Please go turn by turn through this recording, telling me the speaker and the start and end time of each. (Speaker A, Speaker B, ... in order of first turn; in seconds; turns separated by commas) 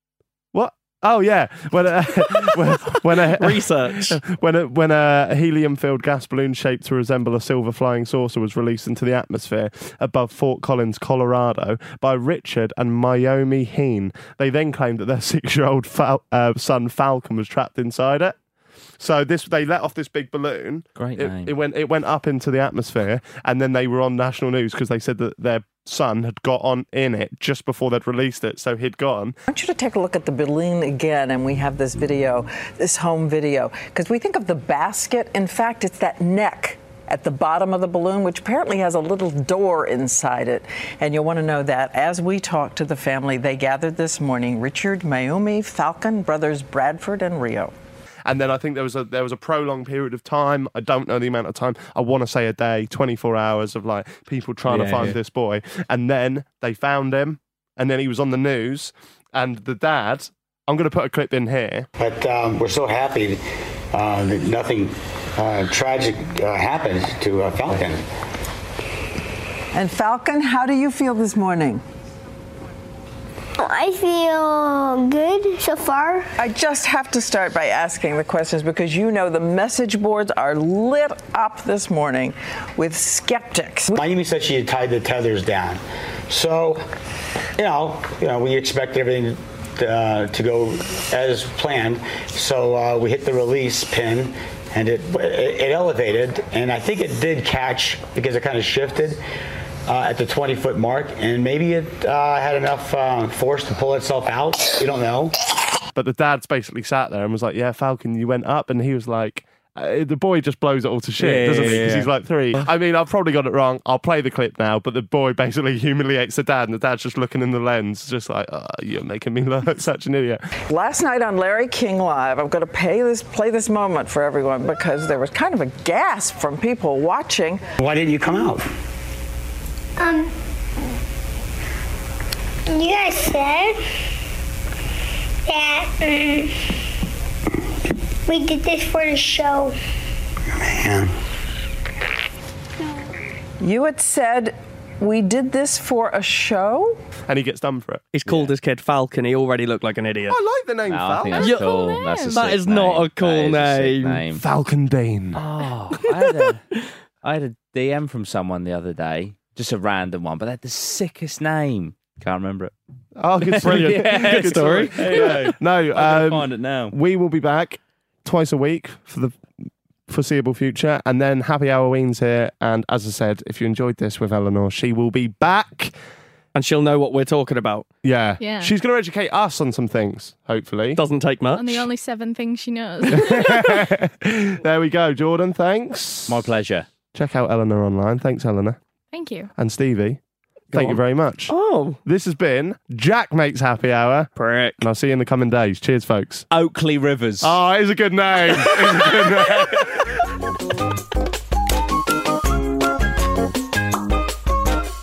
Speaker A: 0.5-18.4, Speaker B: 3.2-4.2, Speaker A: 19.0-29.4, Speaker C: 21.0-21.5, Speaker D: 29.5-47.7, Speaker A: 48.2-61.9, Speaker C: 54.7-55.2, Speaker E: 62.0-68.0, Speaker D: 69.7-71.8, Speaker F: 73.6-76.3, Speaker D: 76.4-84.0, Speaker E: 83.9-86.8, Speaker E: 87.6-99.2, Speaker E: 99.9-105.4, Speaker A: 105.9-120.4, Speaker C: 111.2-112.1, Speaker D: 120.7-127.6, Speaker E: 127.8-128.7, Speaker F: 130.0-130.3, Speaker F: 132.7-133.8, Speaker F: 135.5-136.5, Speaker F: 138.2-139.8, Speaker E: 140.5-141.1, Speaker D: 143.6-147.0, Speaker A: 147.3-148.0, Speaker B: 148.1-150.4, Speaker C: 148.2-148.5, Speaker A: 150.3-151.5, Speaker C: 150.9-154.4, Speaker B: 151.4-154.2, Speaker G: 151.4-152.5, Speaker A: 154.3-155.4, Speaker C: 155.3-156.6, Speaker B: 156.2-156.5, Speaker C: 157.2-162.7, Speaker A: 163.2-169.4, Speaker C: 163.4-166.9, Speaker B: 163.6-165.4, Speaker A: 170.1-175.9, Speaker B: 176.5-177.9, Speaker A: 178.0-181.0, Speaker G: 178.4-178.7, Speaker B: 180.9-181.9, Speaker G: 181.6-183.9, Speaker A: 183.1-186.5, Speaker C: 186.3-186.9, Speaker A: 187.1-188.8, Speaker G: 189.1-189.5, Speaker A: 189.6-190.2, Speaker B: 190.7-192.0, Speaker A: 190.7-196.4, Speaker B: 194.3-194.8, Speaker C: 196.5-197.6, Speaker A: 197.4-200.1